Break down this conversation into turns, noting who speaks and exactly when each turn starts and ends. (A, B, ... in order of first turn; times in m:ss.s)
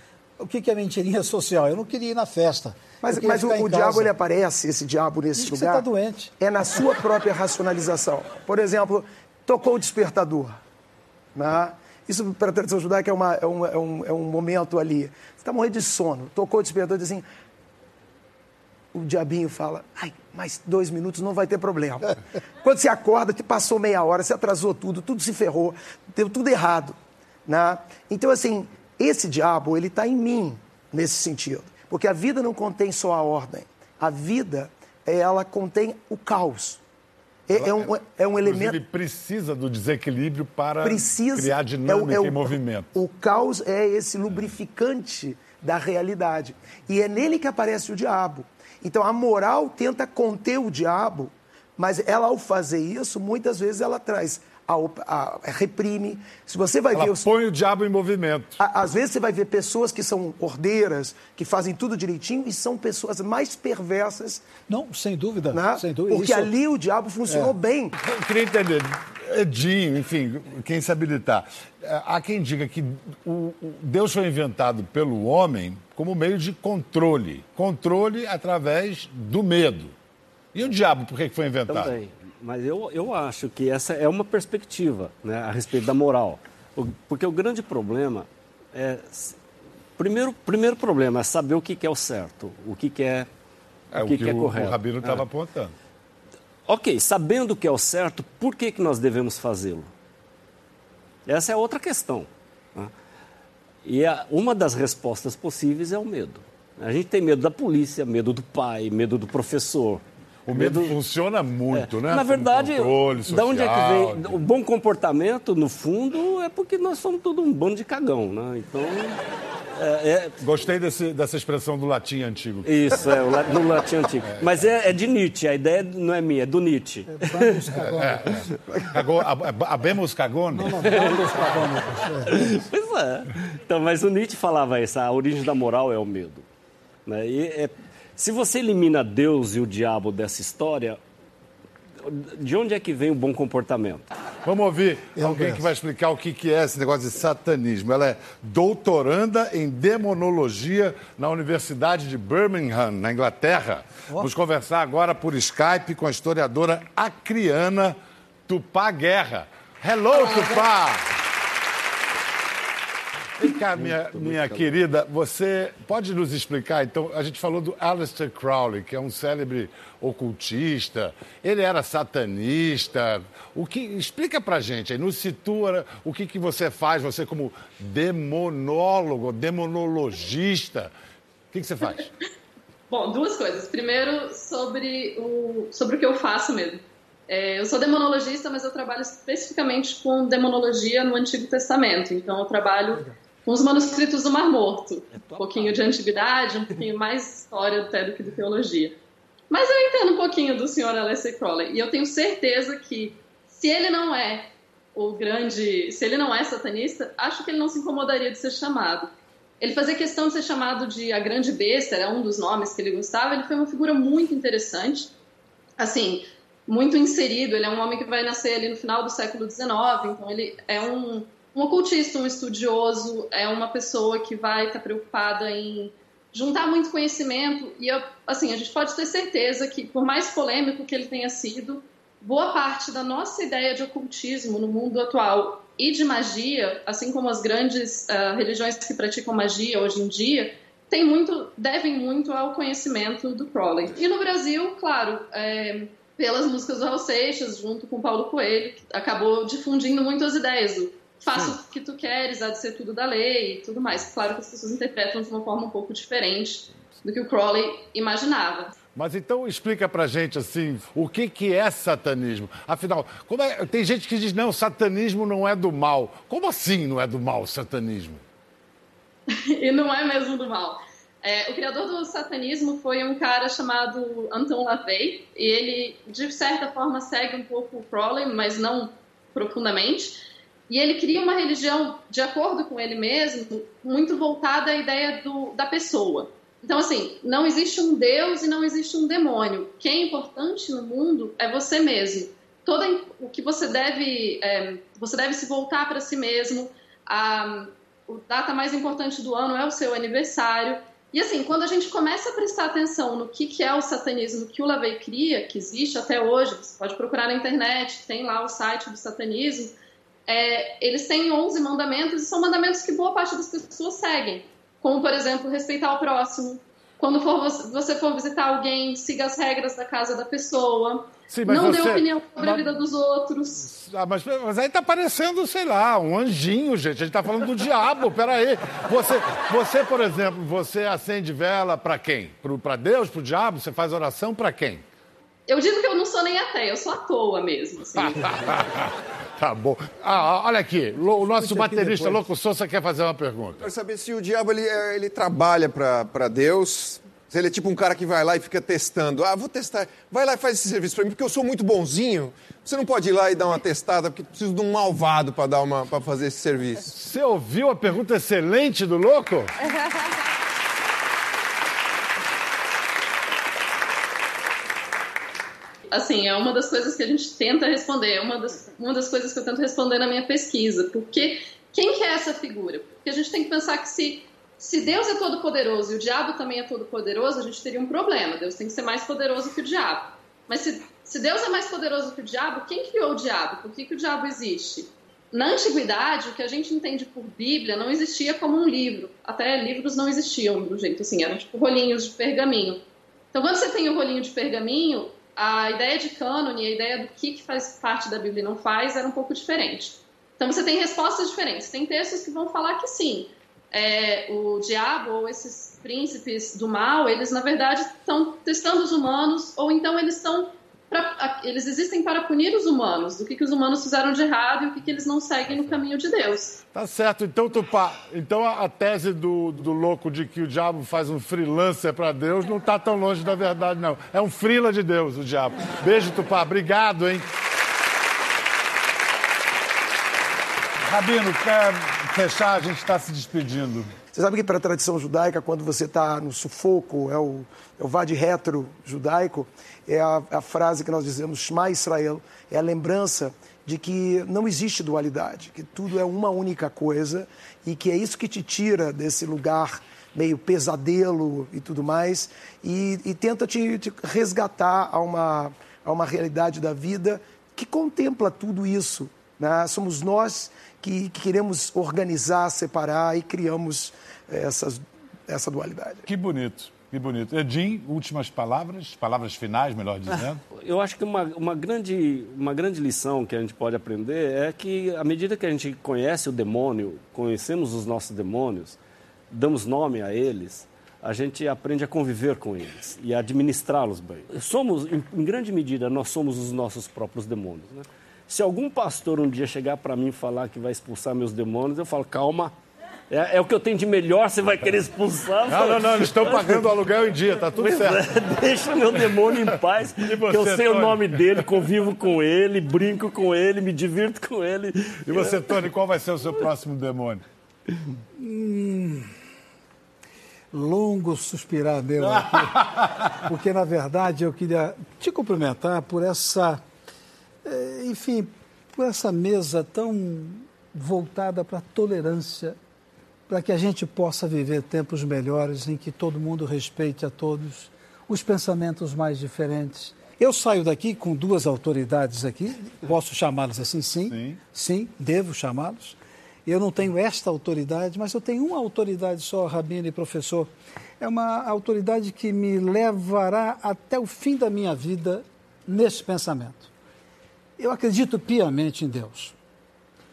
0:00.4-0:04.1 A
0:03.0-0:05.8 B
0:05.4-0:06.3 A
0:06.4-0:10.6 B
0:11.3-0:17.2 B
0:18.9-0:36.8 B
0:37.5-0:38.8 B
0:37.5-0:42.9 C
0:40.8-0:57.3 B
0:56.9-0:58.6 C
0:58.6-1:04.4 B
1:04.7-1:06.5 A
1:05.5-1:07.9 B
1:08.0-1:19.9 C
1:20.5-1:21.9 C
1:21.7-1:29.4 D
1:30.0-1:33.3 D
1:33.9-1:35.8 C
1:34.0-1:35.2 D
1:36.6-1:39.9 D
1:41.2-1:42.9 D
1:43.8-1:50.9 D
1:50.4-1:54.4 C
1:51.7-1:59.2 D
1:59.8-2:00.4 D
2:00.4-2:02.7 C
2:02.6-2:07.8 D
2:07.1-2:08.8 A
2:07.8-2:10.9 C
2:10.5-2:12.6 A
2:10.8-2:11.6 D
2:12.2-2:16.4 D
2:17.0-2:21.0 D
2:22.0-2:24.1 D
2:24.4-2:41.1 C
2:25.2-2:25.7 A
2:43.4-3:00.9 C
2:43.8-2:44.6 D
3:01.5-3:02.1 C
3:02.9-3:19.0 E
3:15.1-3:16.1 D
3:19.5-3:35.1 E
3:35.8-4:18.7 E
4:11.3-4:11.6 C
4:19.0-4:28.2 C
4:29.3-5:09.7 E
5:10.3-5:23.7 E
5:21.3-5:22.6 C
5:23.6-5:34.8 C
5:35.5-5:38.3 E
5:38.0-5:43.6 C
5:41.4-5:42.1 A
5:43.6-5:56.9 F
5:56.9-5:59.5 C
6:05.9-6:32.8 E
6:33.3-6:56.6 E
6:56.7-7:07.3 C
7:10.8-7:13.9 C
7:14.1-7:46.0 B
7:46.0-7:50.4 C
7:50.5-7:58.8 D
7:59.3-8:12.5 D
8:13.1-8:16.7 D
8:15.5-8:18.0 C
8:17.6-8:25.5 D
8:20.0-8:21.5 C
8:25.0-8:27.2 C
8:28.2-8:29.1 A
8:30.5-8:36.6 A
8:32.0-8:33.2 C
8:37.4-8:42.6 A
8:43.3-9:06.7 A
8:54.1-8:54.4 C
9:07.6-9:09.3 A